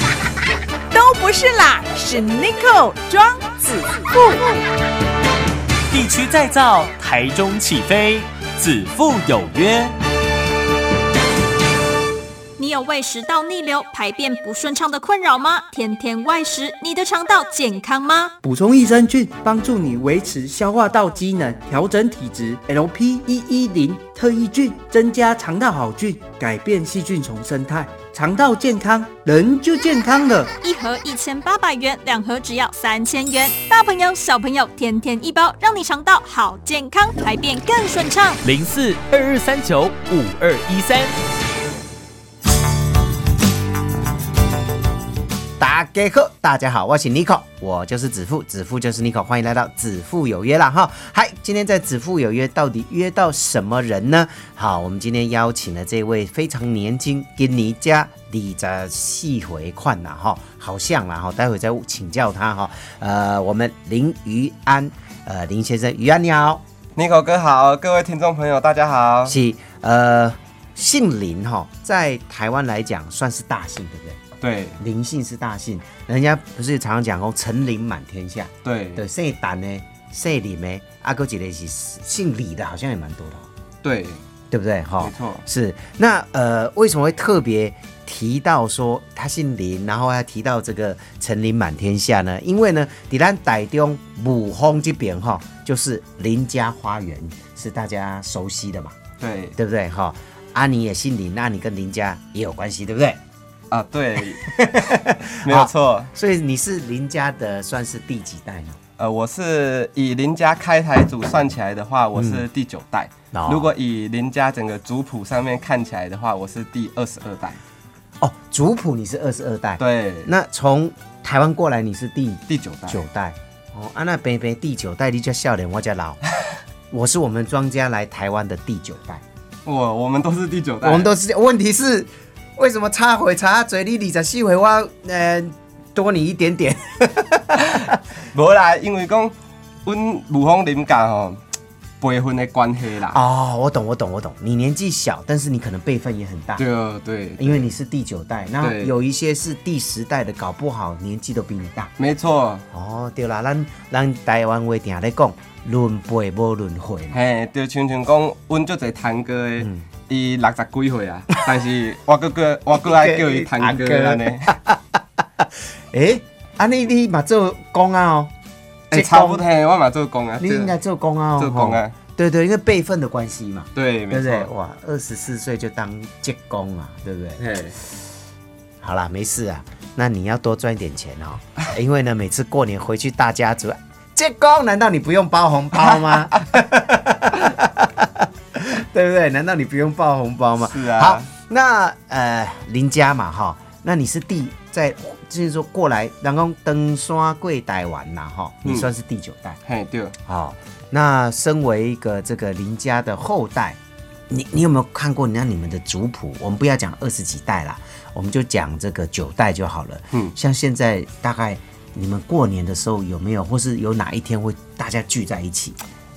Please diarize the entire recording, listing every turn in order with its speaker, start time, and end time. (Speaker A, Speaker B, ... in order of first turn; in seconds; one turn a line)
Speaker A: 1.0-3.2
Speaker B: 5.9-9.9
Speaker C: 12.6-18.3
Speaker D: 18.4-30.5
Speaker C: 30.6-38.4
Speaker B: 38.5-41.1
Speaker E: 45.6-66.6
Speaker F: 67.0-69.4
Speaker E: 69.3-74.2
Speaker F: 74.4-74.8
Speaker E: 74.8-83.5
Speaker F: 78.6-79.0
Speaker F: 83.8-84.2
Speaker E: 84.5-99.0
Speaker F: 85.0-85.5
Speaker F: 99.2-99.6
Speaker E: 99.6-103.2
Speaker F: 103.7-106.1
Speaker E: 104.4-108.8
Speaker F: 109.0-117.6
Speaker E: 112.2-112.4
Speaker E: 113.3-113.7
Speaker E: 118.2-126.2
Speaker F: 119.8-120.3
Speaker F: 122.5-123.0
Speaker E: 126.9-129.2
Speaker F: 129.7-131.1
Speaker E: 130.8-137.9
Speaker F: 137.8-141.4
Speaker F: 142.0-143.2
Speaker E: 143.1-146.7
Speaker F: 146.6-147.7
Speaker E: 147.4-151.9
Speaker F: 148.6-148.9
Speaker F: 152.0-152.7
Speaker E: 152.7-157.2
Speaker F: 157.1-164.6
Speaker E: 162.8-164.8
Speaker E: 165.9-168.3
Speaker F: 168.9-170.8
Speaker E: 168.9-169.5
Speaker E: 170.4-177.4
Speaker F: 171.4-171.9
Speaker F: 173.7-174.5
Speaker F: 177.4-177.8
Speaker E: 178.8-199.6
Speaker F: 190.6-191.3
Speaker F: 199.7-200.2
Speaker E: 200.3-203.8
Speaker E: 204.3-215.8